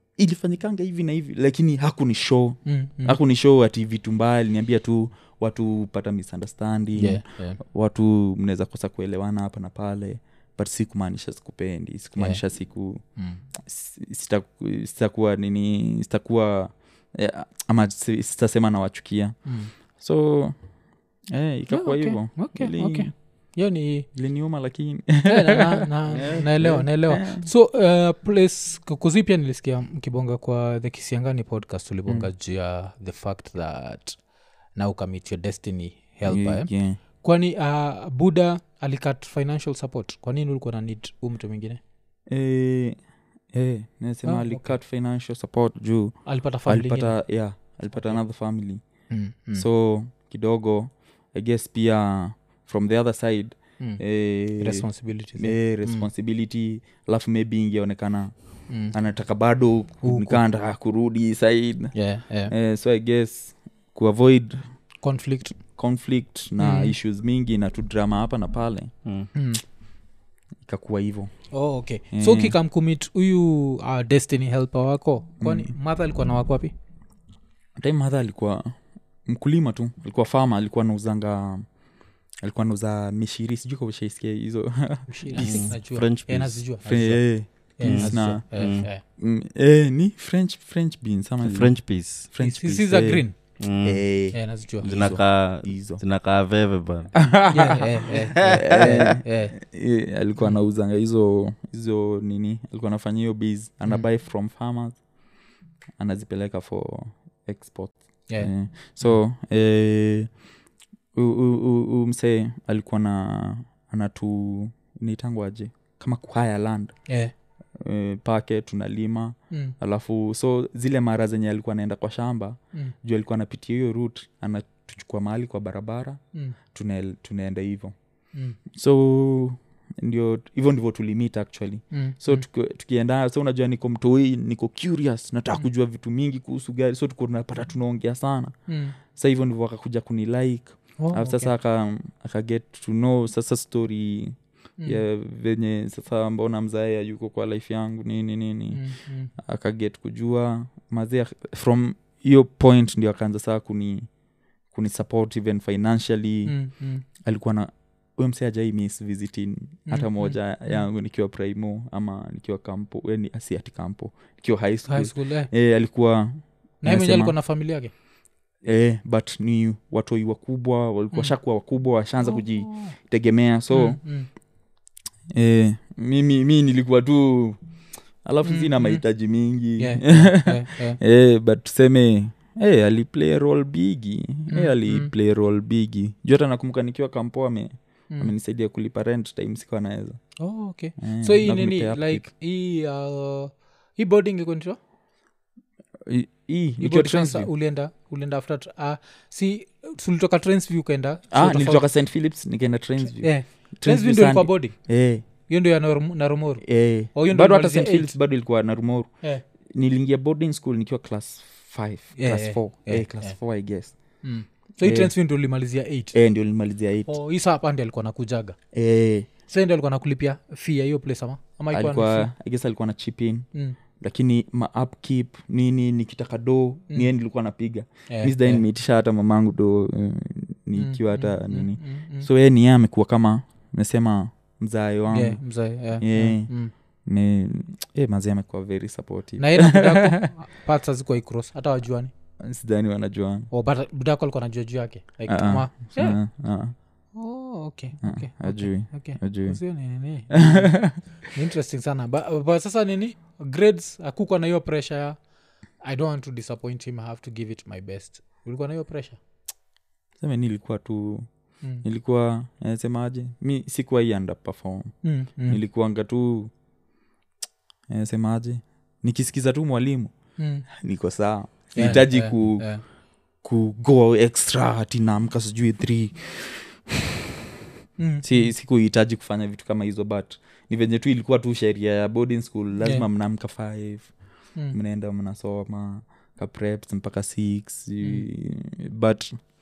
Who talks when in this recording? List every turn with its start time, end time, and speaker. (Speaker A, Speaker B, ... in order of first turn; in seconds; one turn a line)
Speaker A: 0.2-13.0
Speaker B: 2.6-3.2
Speaker B: 7.0-7.6
Speaker B: 13.2-13.4
Speaker A: 13.6-19.4
Speaker B: 19.4-19.7
Speaker A: 19.9-20.6
Speaker A: 21.3-23.1
Speaker B: 21.7-24.1
Speaker A: 24.1-27.5
Speaker B: 25.2-34.2
Speaker C: 26.1-26.5
Speaker B: 34.7-41.8
Speaker A: 36.2-37.0
Speaker A: 42.3-43.0
Speaker A: 43.5-48.8
Speaker B: 44.2-44.8
Speaker B: 46.2-47.2
Speaker B: 47.9-48.2
Speaker B: 49.1-49.6
Speaker A: 49.5-58.3
Speaker B: 54.6-56.1
Speaker B: 58.7-58.9
Speaker A: 58.8-61.9
Speaker B: 60.0-60.4
Speaker B: 61.9-62.5
Speaker A: 62.5-64.7
Speaker B: 65.0-65.5
Speaker A: 65.8-68.9
Speaker B: 66.6-67.0
Speaker B: 69.3-69.6
Speaker A: 70.6-71.3
Speaker B: 71.5-76.7
Speaker A: 72.1-72.5
Speaker A: 75.4-75.7
Speaker A: 77.8-81.7
Speaker A: 82.4-85.7
Speaker B: 85.1-89.0
Speaker C: 85.4-86.6
Speaker A: 86.8-93.2
Speaker C: 87.8-88.9
Speaker C: 91.4-92.3
Speaker B: 92.4-93.4
Speaker C: 93.6-94.1
Speaker A: 93.8-96.0
Speaker B: 94.3-95.1
Speaker C: 94.8-97.2
Speaker A: 97.2-105.0
Speaker B: 97.5-99.5
Speaker C: 98.4-99.0
Speaker A: 106.0-110.3
Speaker B: 108.3-109.2
Speaker A: 111.1-117.0
Speaker A: 117.8-126.2
Speaker A: 126.7-127.9
Speaker A: 128.7-138.6
Speaker B: 131.9-132.4
Speaker B: 138.7-138.9
Speaker A: 139.1-148.8
Speaker B: 141.0-141.5
Speaker B: 148.7-149.3
Speaker A: 149.4-154.1
Speaker A: 154.7-156.6
Speaker B: 156.4-157.0
Speaker A: 157.2-167.3
Speaker B: 159.9-160.8
Speaker B: 164.9-165.5
Speaker B: 166.8-167.9
Speaker A: 168.6-174.0
Speaker B: 172.2-172.9
Speaker B: 173.7-174.3
Speaker A: 175.3-177.6
Speaker A: 178.2-190.2
Speaker B: 178.4-179.0
Speaker B: 179.8-181.0
Speaker B: 184.5-185.1
Speaker B: 190.4-194.8
Speaker A: 191.0-192.3
Speaker A: 196.1-197.5
Speaker B: 196.8-201.8
Speaker A: 201.3-205.2
Speaker B: 203.2-204.8
Speaker B: 205.4-208.1
Speaker A: 206.6-209.1
Speaker A: 209.7-213.9
Speaker B: 212.2-213.3
Speaker B: 214.2-216.1
Speaker A: 214.8-215.1
Speaker A: 216.1-217.1
Speaker B: 217.1-218.6
Speaker A: 218.7-219.3
Speaker B: 219.5-222.3
Speaker A: 221.7-223.5
Speaker A: 224.0-235.4
Speaker B: 228.1-228.6
Speaker B: 230.8-232.3
Speaker B: 235.1-236.7
Speaker A: 236.0-236.5
Speaker A: 237.1-240.3
Speaker B: 239.4-242.1
Speaker A: 242.4-243.5
Speaker B: 243.5-246.2
Speaker A: 245.3-246.7
Speaker B: 247.1-255.2
Speaker A: 248.0-249.6
Speaker A: 250.3-251.0
Speaker B: 255.8-259.2
Speaker A: 260.2-261.3
Speaker A: 261.8-266.5
Speaker B: 265.0-265.6
Speaker A: 267.9-270.1
Speaker B: 270.4-270.6
Speaker A: 270.7-272.7
Speaker B: 271.7-272.8
Speaker A: 273.4-277.0
Speaker B: 278.0-278.5
Speaker A: 278.2-284.1
Speaker A: 284.7-289.4